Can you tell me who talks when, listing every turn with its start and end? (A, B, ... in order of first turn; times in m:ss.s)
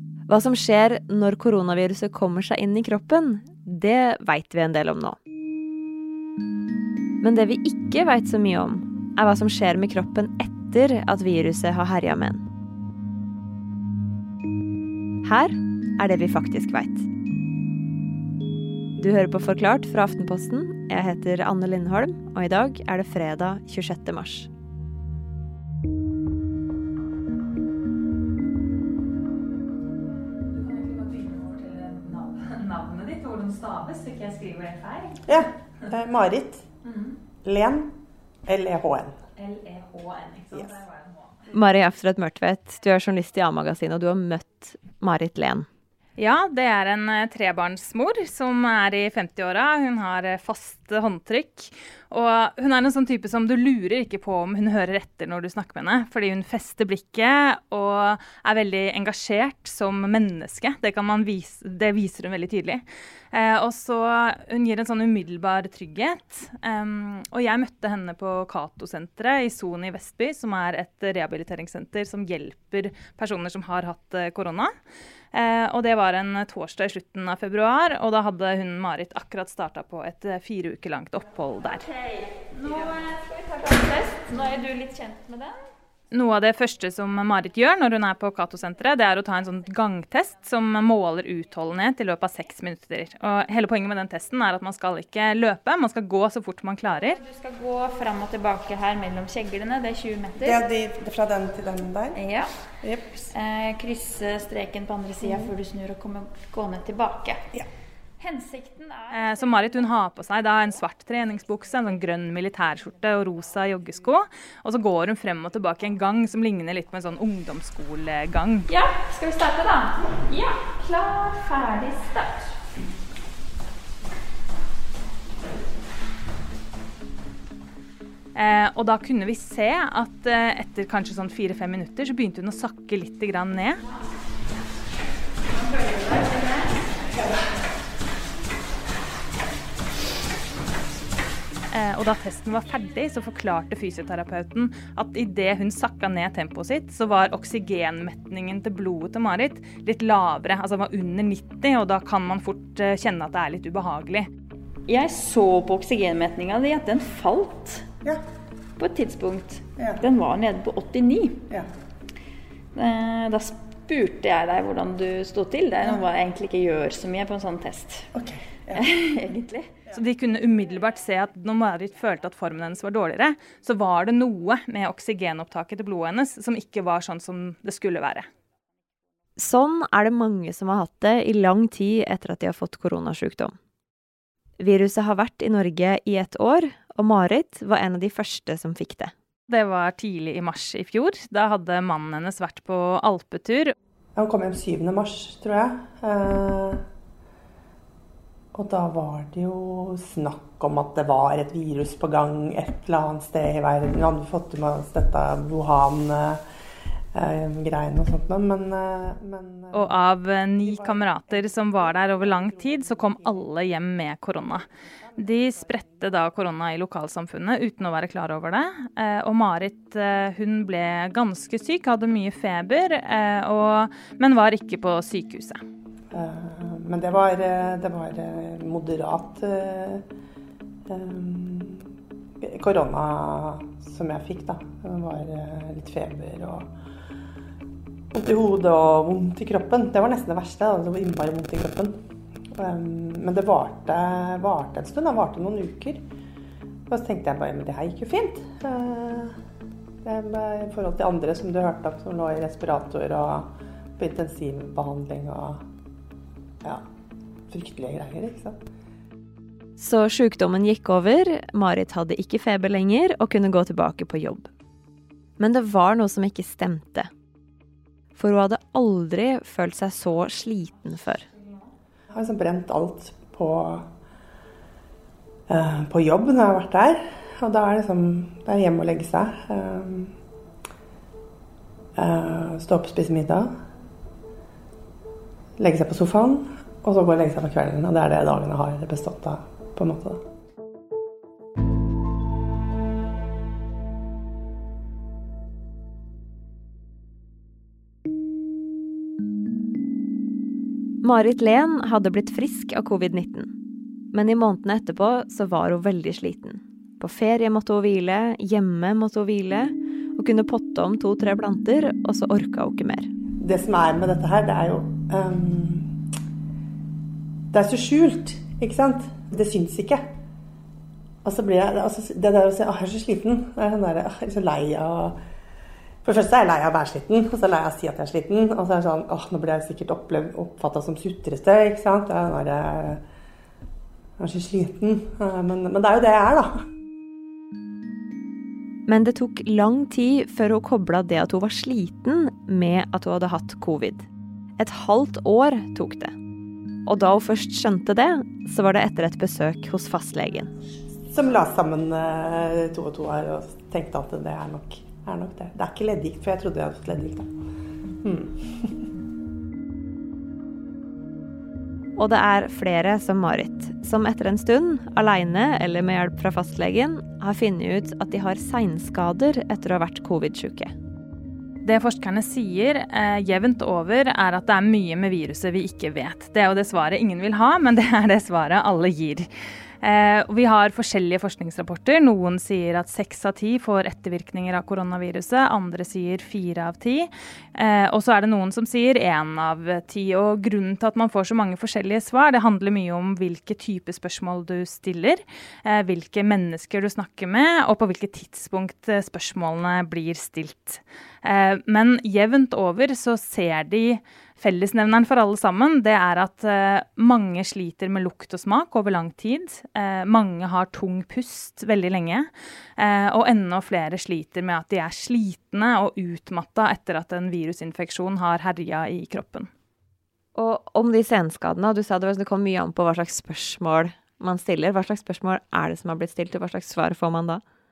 0:00.3-0:05.2 A
0:07.2-0:12.4 A
0:15.2-0:17.1 A
0:19.0-0:24.5 A
0:30.6-0:35.1 B
0:35.3-0:36.6 C
0:37.4-0:37.9 C
0:38.5-0:39.1 C
0:39.6-0:40.5 B
0:39.7-0:40.3 D
0:40.5-0:40.8 C
0:41.5-0:45.7 A
0:46.2-1:14.7 D
1:15.3-1:21.9 D
1:22.0-1:25.6 B
1:26.1-1:37.2 D
1:37.2-1:40.6 B
1:40.4-1:42.2 C
1:42.2-1:42.5 B
1:42.8-1:43.3 C
1:43.3-1:47.5 B
1:45.2-1:45.5 C
1:48.2-1:49.4 B
1:49.1-1:58.7 D
1:58.7-2:02.5 B
2:08.4-2:13.8 D
2:15.6-2:16.8 B
2:21.7-2:34.3 D
2:34.9-2:37.9 B
2:38.8-2:41.4 B
2:39.8-2:40.0 C
2:42.8-2:48.1 B
2:48.2-2:48.9 C
2:48.7-2:49.7 B
2:49.9-2:58.3 D
2:59.4-3:03.6 A
3:04.6-3:09.1 A
3:09.5-3:13.7 D
3:14.2-3:16.8 C
3:18.6-3:26.4 C
3:27.2-3:30.0 C
3:29.7-3:34.6 D
3:30.6-3:33.5 C
3:34.9-3:35.8 C
3:35.2-3:45.6 D
3:46.1-3:50.0 C
3:50.9-3:51.8 C
3:52.4-3:56.7 C
3:58.1-4:01.9 C
4:02.5-4:06.0 C
4:06.9-4:09.4 C
4:10.0-4:13.5 C
4:14.0-4:15.6 C
4:17.5-4:18.6 C
4:19.8-4:24.5 A
4:25.4-4:27.1 A
4:28.1-4:31.3 A
4:32.1-4:33.9 C
4:35.5-4:40.1 C
4:42.0-4:43.5 C
4:45.6-4:50.2 C
5:01.0-5:03.5 A
5:04.1-5:13.1 A
5:13.4-5:15.9 C
5:17.5-5:20.0 C
5:21.2-5:25.2 C
5:26.0-5:33.0 C
5:34.2-5:36.6 C
5:38.9-5:44.1 A
5:44.6-5:46.2 A
5:46.9-5:50.5 A
5:51.1-5:57.3 C
5:58.0-5:58.7 C
6:02.0-6:10.7 A
6:11.6-6:19.3 D
6:19.8-6:59.5 D
7:00.4-7:07.4 A